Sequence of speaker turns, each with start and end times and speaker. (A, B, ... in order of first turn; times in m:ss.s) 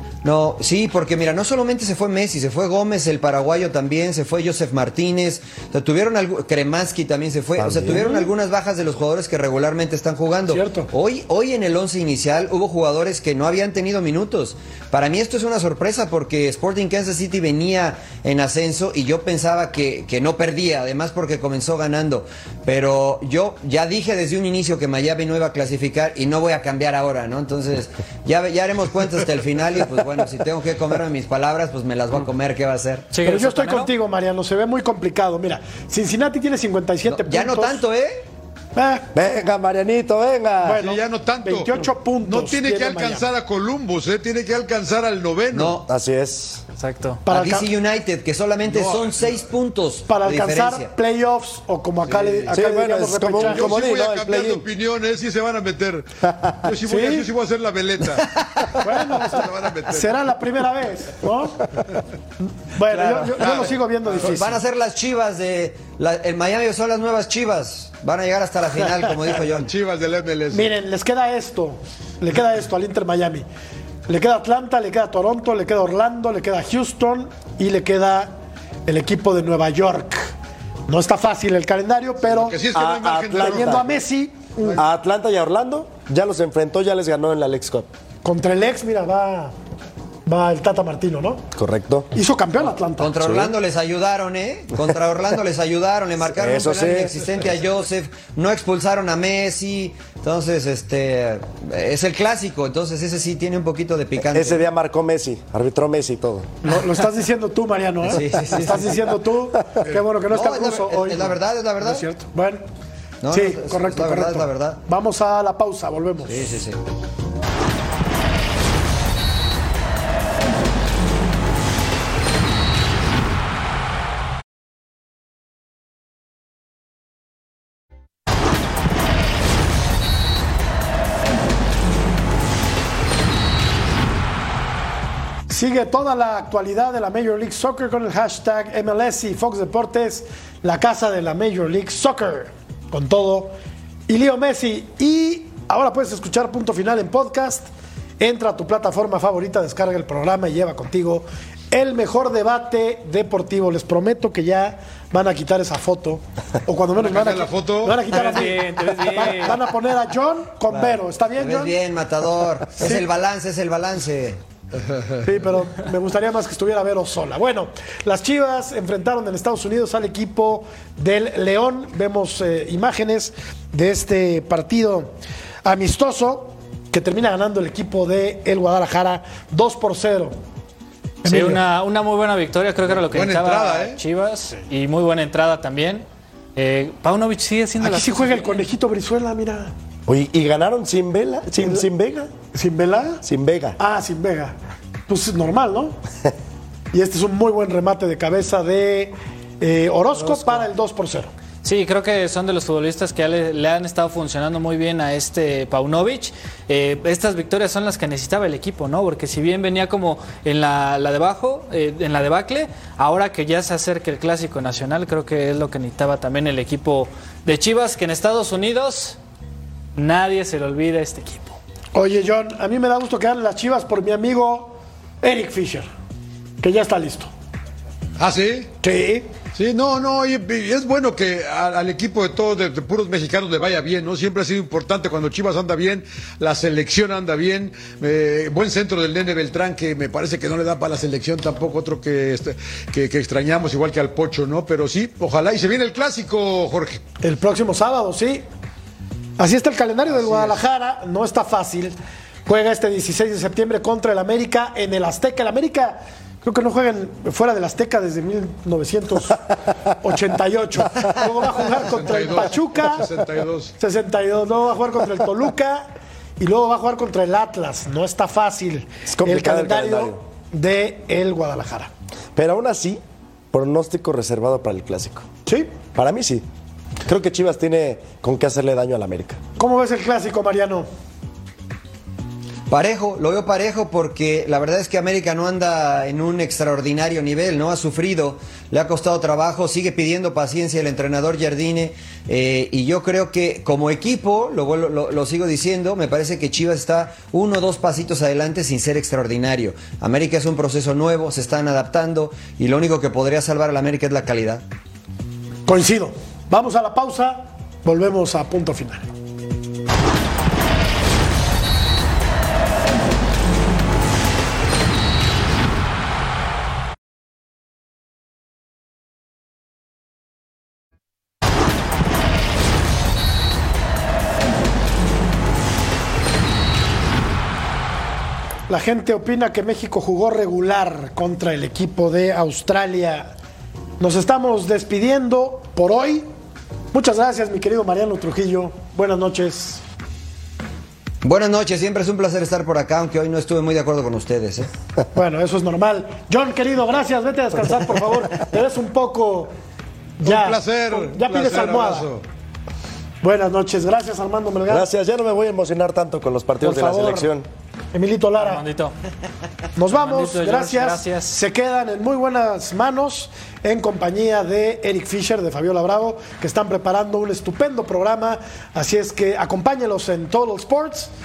0:00.2-0:33.1 A
0:07.6-0:08.2 B
0:10.5-0:10.9 C
0:33.1-0:33.9 D
0:33.2-0:37.8 C
0:37.1-0:38.2 A
0:38.8-0:39.1 C
0:39.1-0:40.8 B
0:40.6-0:43.3 C
0:40.8-0:45.8 E
0:45.5-0:45.9 A
0:45.9-0:46.6 B
0:46.8-0:47.2 D
0:47.3-0:47.7 C
0:47.3-0:50.9 A
0:48.6-0:49.4 E
0:50.1-0:53.8 C
0:52.1-0:52.5 E
0:52.5-0:54.6 B
0:53.3-1:00.1 E
0:56.2-0:56.6 B
0:56.8-0:57.3 C
0:58.2-0:58.8 A
0:58.8-1:01.7 C
1:02.4-1:04.6 C
1:02.9-1:09.7 A
1:03.4-1:04.3 E
1:09.5-1:10.7 E
1:10.5-1:13.5 C
1:14.1-1:18.4 C
1:18.9-1:20.3 C
1:20.9-1:22.6 C
1:22.3-1:23.9 E
1:22.7-1:23.9 B
1:23.3-1:24.8 C
1:24.8-1:27.9 B
1:28.2-1:29.5 C
1:30.3-1:31.4 C
1:31.6-1:32.1 B
1:32.1-1:33.1 C
1:33.0-1:44.6 A
1:33.2-1:33.5 B
1:36.3-1:37.2 B
1:44.3-1:46.5 B
1:46.6-1:52.6 C
1:48.0-1:49.2 A
1:50.3-1:52.0 A
1:53.2-1:54.8 A
1:53.3-1:56.5 C
1:56.3-1:56.8 A
2:15.5-2:23.5 C
2:24.1-2:27.7 C
2:28.2-2:41.8 C
2:37.0-2:38.1 E
2:38.1-2:39.7 D
2:40.7-2:44.4 A
2:42.8-2:43.1 C
2:44.9-2:45.2 E
2:45.2-2:55.1 C
2:55.6-3:00.4 C
3:01.2-3:01.6 C
3:01.3-3:06.0 D
3:03.1-3:04.0 E
3:06.6-3:08.6 D
3:07.8-3:09.7 C
3:10.1-3:12.3 B
3:11.6-3:11.9 C
3:12.5-3:13.2 C
3:13.2-3:13.8 B
3:13.8-3:14.6 C
3:15.1-3:16.0 C
3:16.9-3:21.3 C
3:20.2-3:20.7 D
3:21.6-3:39.2 D
3:40.0-3:41.6 D
3:41.9-3:45.9 C
3:46.6-3:47.3 C
3:48.2-3:48.7 E
3:48.8-3:49.3 C
3:49.6-4:07.0 E
4:07.2-4:08.4 C
4:09.4-4:11.9 C
4:10.1-4:10.6 E
4:12.5-4:19.5 C
4:20.0-4:23.2 C
4:21.7-4:23.8 E
4:23.8-4:25.9 C
4:26.4-4:31.9 C
4:29.1-4:30.2 B
4:32.4-4:33.0 B
4:33.5-4:35.3 B
4:35.5-4:35.8 C
4:36.0-4:36.5 B
4:37.1-4:39.4 B
4:39.6-4:40.9 C
4:42.7-5:04.6 A
5:05.7-5:09.1 C
5:28.7-5:33.3 C
5:34.0-5:36.3 C
5:36.9-5:39.8 C
5:41.2-5:44.7 A
5:45.1-5:49.5 C
5:50.2-5:52.1 C
5:50.2-5:52.2 E
5:53.2-5:54.9 C
5:54.7-5:57.5 B
5:56.6-5:57.3 C
5:57.9-5:58.6 C
5:58.4-5:58.9 D
5:59.8-6:11.1 C
5:59.9-6:01.4 D